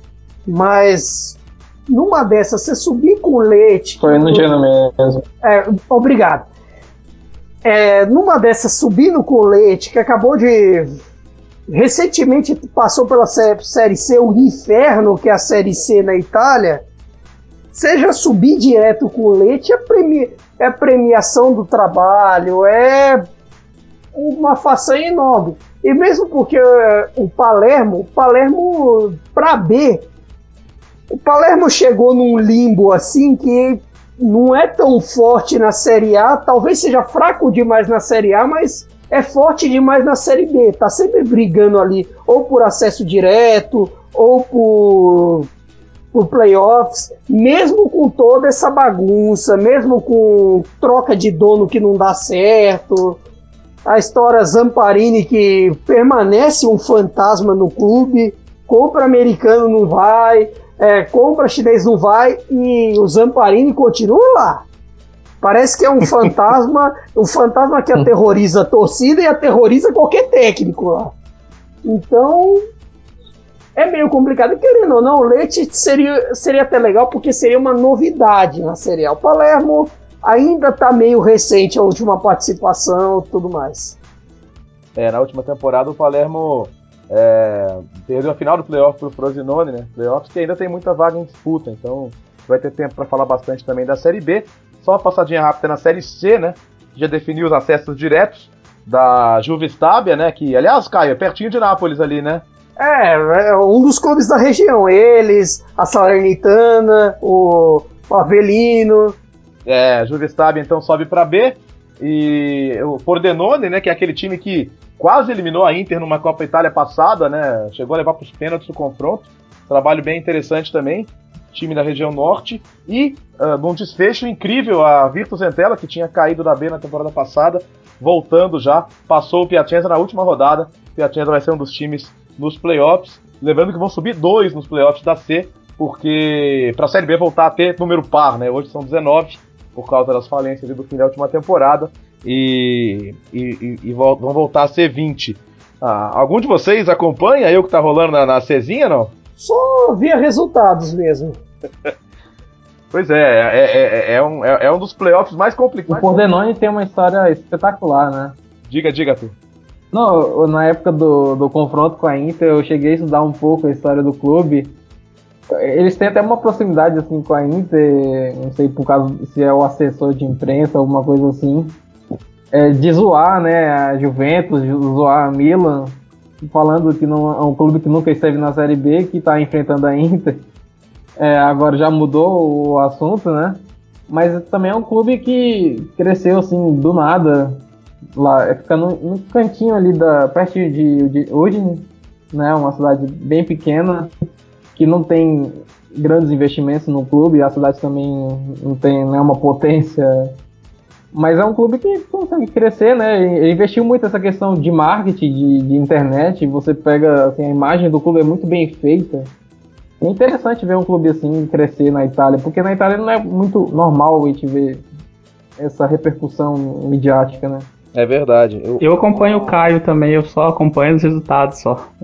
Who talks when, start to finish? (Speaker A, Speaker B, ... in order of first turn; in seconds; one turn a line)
Speaker A: 0.5-4.4
Speaker B: 4.0-5.2
Speaker A: 5.4-6.5
Speaker A: 7.6-11.0
Speaker A: 11.7-16.8
Speaker A: 17.7-23.2
Speaker A: 24.1-30.1
Speaker A: 31.1-45.5
Speaker A: 46.1-53.2
Speaker A: 53.8-64.7
Speaker A: 65.4-71.1
Speaker A: 71.8-72.6
Speaker A: 73.8-84.0
Speaker C: 84.9-102.4
Speaker A: 102.8-109.2
Speaker C: 109.7-149.1
Speaker A: 149.4-151.4
Speaker C: 152.9-156.2
Speaker B: 155.9-158.4
Speaker C: 158.7-159.3
Speaker B: 159.9-164.8
Speaker B: 165.5-171.8
Speaker B: 172.5-180.5
Speaker B: 181.2-187.6
Speaker B: 188.2-194.1
Speaker B: 194.8-200.3
Speaker B: 201.1-209.3
Speaker B: 210.0-214.8
Speaker B: 215.6-217.7
Speaker C: 217.9-219.6
Speaker D: 218.8-221.9